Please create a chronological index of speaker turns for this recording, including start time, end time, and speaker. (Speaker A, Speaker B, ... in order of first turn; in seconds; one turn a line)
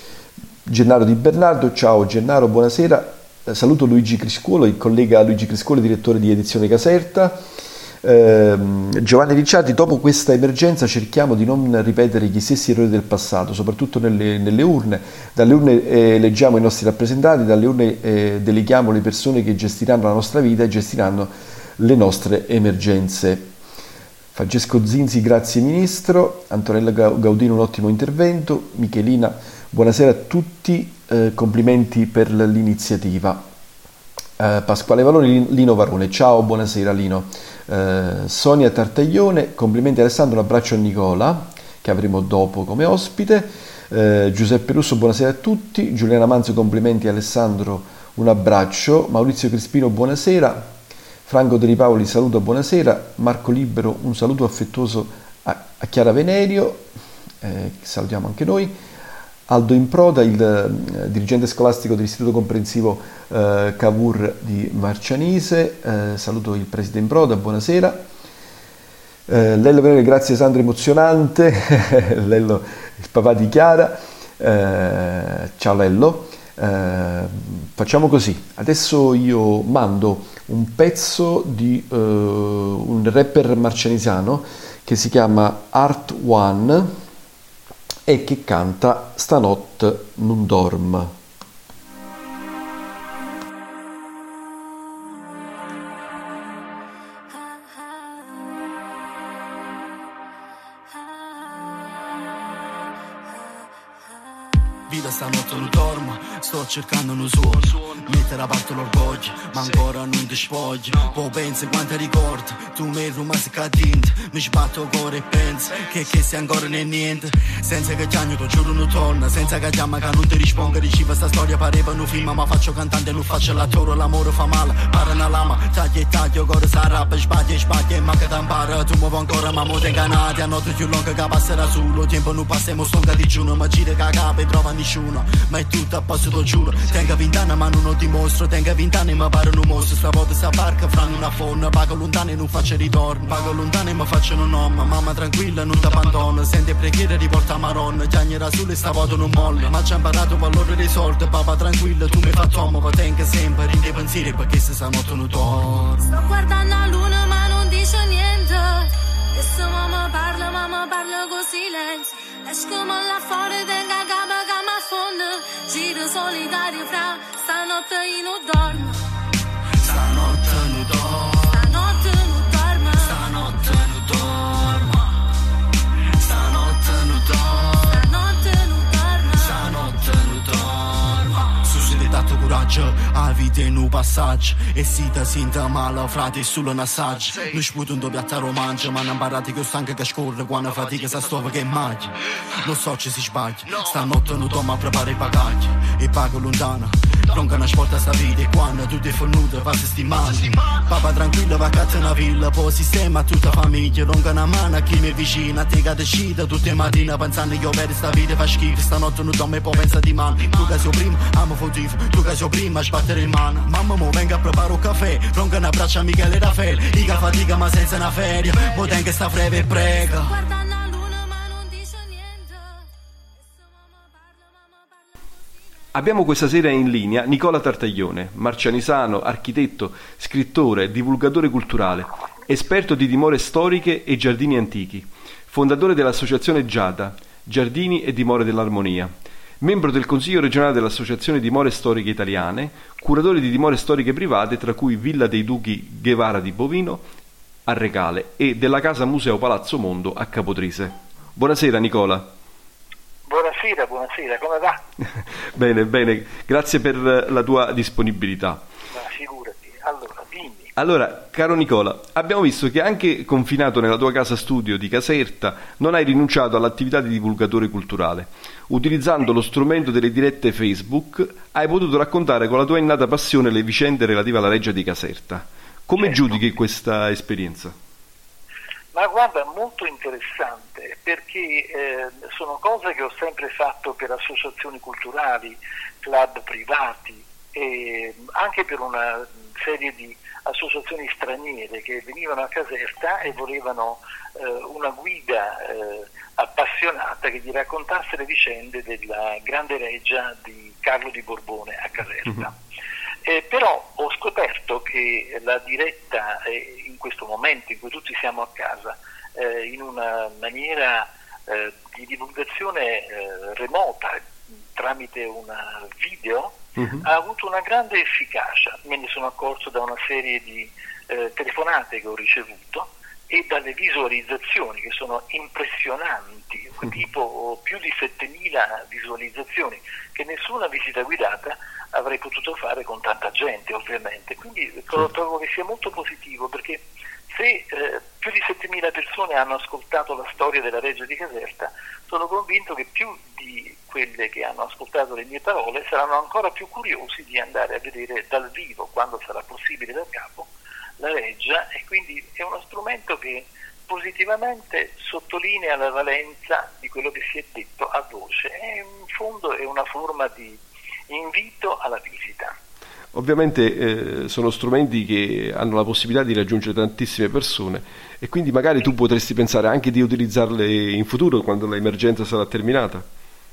Speaker A: 0.7-7.4
Speaker A: 8.0-23.5
Speaker A: 24.4-33.4
Speaker A: 34.4-50.7
Speaker A: 51.3-56.9
Speaker A: 57.4-58.8
Speaker A: 59.5-68.0
Speaker A: 69.3-86.9
Speaker A: 88.1-91.1
Speaker B: 104.9-156.0
Speaker C: 156.0-169.0
Speaker B: 169.8-171.6
Speaker C: 171.5-173.4
Speaker B: 173.0-175.0
Speaker B: 176.2-178.1
Speaker C: 177.9-179.7
Speaker B: 179.4-220.3
Speaker C: 220.2-222.9
Speaker C: 223.4-225.2
Speaker A: 225.9-247.1
Speaker A: 247.7-252.3
Speaker D: 253.3-254.8
Speaker A: 255.2-258.7
Speaker D: 258.9-260.7
Speaker A: 260.8-277.8
Speaker D: 276.0-276.3
Speaker D: 278.9-302.6
Speaker D: 303.2-350.5
Speaker A: 316.8-317.1
Speaker D: 351.0-362.5
Speaker A: 363.1-373.1